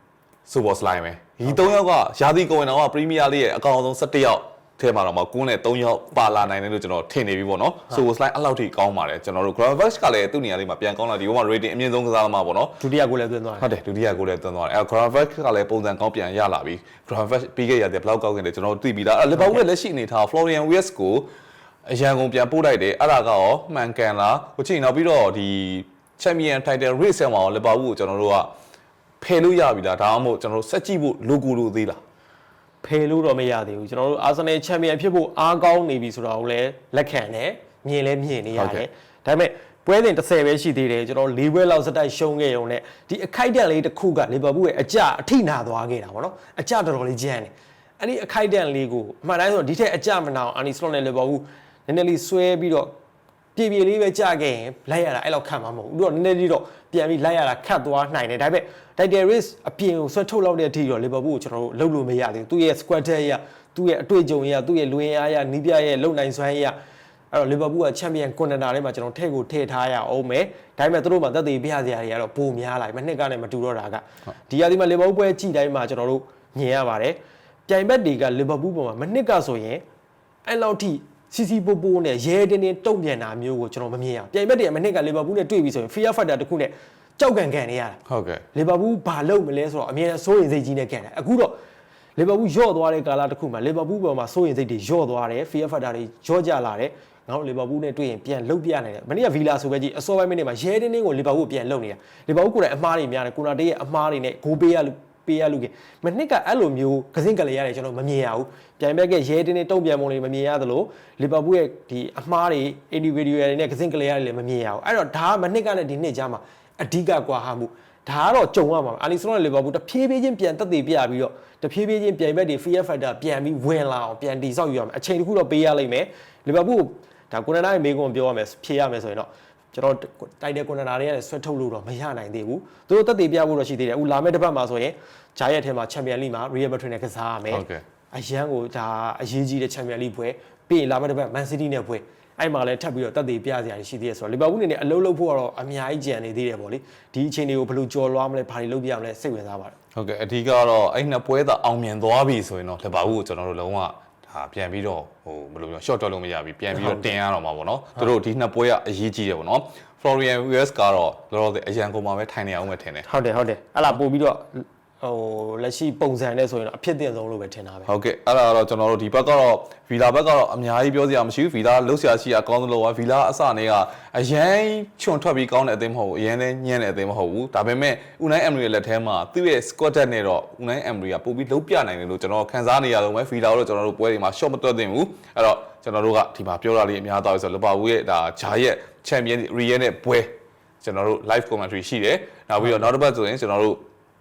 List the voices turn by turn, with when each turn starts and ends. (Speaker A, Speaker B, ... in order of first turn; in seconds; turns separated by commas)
Speaker A: 0.5-12.8, Speaker B: 1.4-1.7, Speaker B: 12.8-13.7, Speaker A: 13.6-21.3, Speaker B: 19.4-19.6, Speaker A: 21.9-28.5, Speaker A: 29.2-32.0, Speaker B: 32.8-52.9, Speaker A: 38.5-38.8, Speaker B: 53.6-66.7, Speaker B: 67.3-79.8, Speaker B: 80.5-88.0, Speaker A: 88.1-88.4, Speaker B: 88.5-91.6, Speaker B: 92.2-149.7, Speaker A: 137.5-137.8, Speaker A: 149.9-163.1, Speaker B: 156.7-157.2, Speaker B: 163.1-167.9, Speaker A: 167.9-193.8